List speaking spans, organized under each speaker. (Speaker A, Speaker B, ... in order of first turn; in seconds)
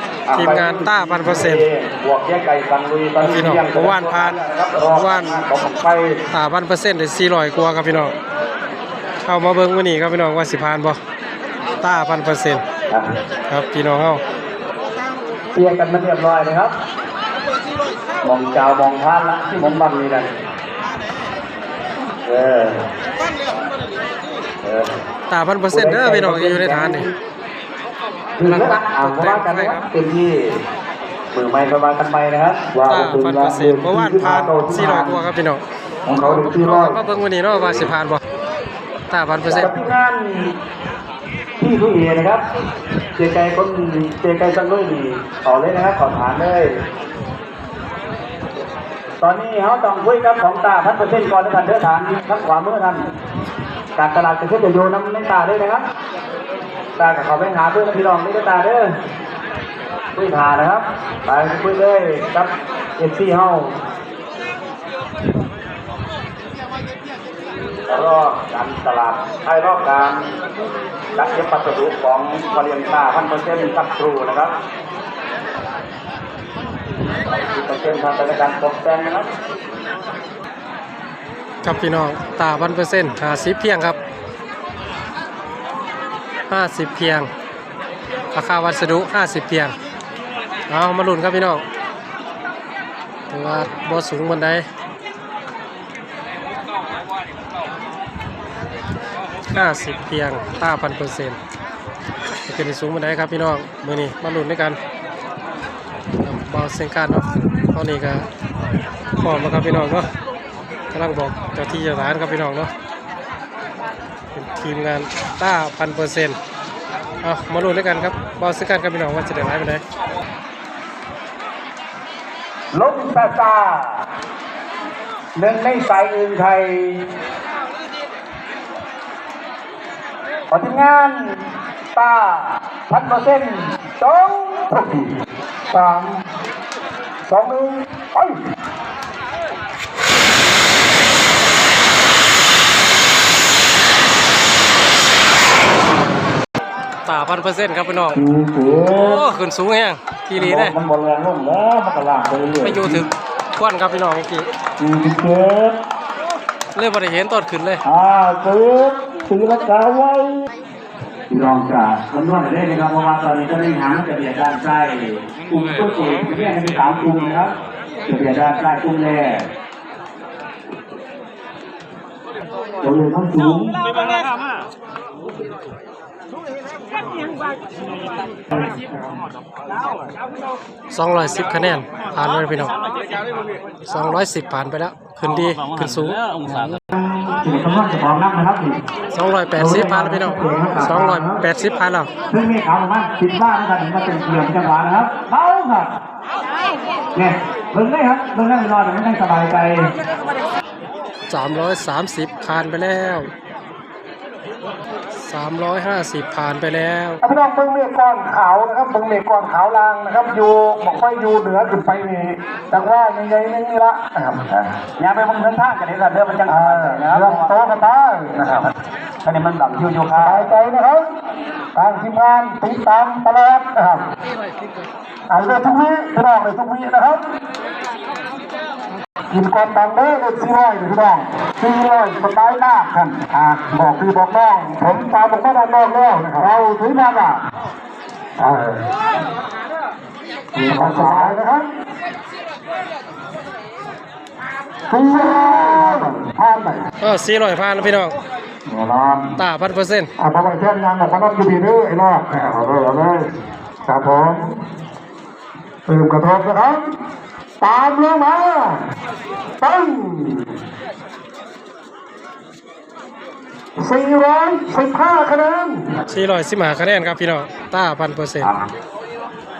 Speaker A: 0.3-6.2, 15.5-16.7, 18.2-20.3, 22.2-22.8, 24.6-24.9, 25.7-27.1, 28.4-30.4, 31.3-35.3, 36.1-37.0, 37.5-37.9, 39.5-40.5, 41.6-42.4, 43.1-46.7, 49.2-53.1, 54.0-55.8, 57.0-58.9, 60.1-63.8, 67.9-70.3, 71.1-74.5, 77.3-79.3, 122.7-124.0, 125.3-127.0, 130.5-131.4, 131.9-135.1, 148.1-149.3, 150.4-153.0, 154.8-155.7, 157.8-160.3, 161.3-167.5, 168.1-169.5, 172.8-173.8, 186.5-188.8, 189.6-191.4, 192.3-195.9, 197.1-199.9, 214.5-217.5, 219.2-220.6
Speaker B: 0.3-1.6, 3.2-5.4, 6.3-8.1, 9.2-11.0, 11.8-12.6, 13.5-14.2, 25.3-27.1, 28.4-29.8, 32.9-35.6, 36.2-38.2, 39.1-39.7, 81.6-84.0, 86.5-87.3, 88.3-89.7, 90.7-91.6, 93.3-94.7, 99.5-101.4, 102.5-104.8, 106.2-108.2, 109.2-110.1, 110.9-112.7, 114.3-116.4, 117.2-119.8, 147.0-148.2, 148.9-150.8, 152.6-154.5, 156.7-157.8, 180.9-182.7, 183.8-186.2, 189.1-192.1, 201.3-203.3, 205.2-207.2, 240.7-241.3, 247.0-248.2, 249.4-250.1, 266.1-268.5
Speaker C: 135.7-136.2, 137.3-138.3, 207.2-214.4, 216.5-218.6, 220.1-221.1, 221.7-224.0, 225.3-227.2, 229.3-237.4, 238.4-238.9, 240.6-241.7, 244.9-246.8, 248.7-249.3, 250.2-253.3, 253.8-254.6, 255.8-256.9, 257.6-258.8, 259.6-260.5, 263.8-266.0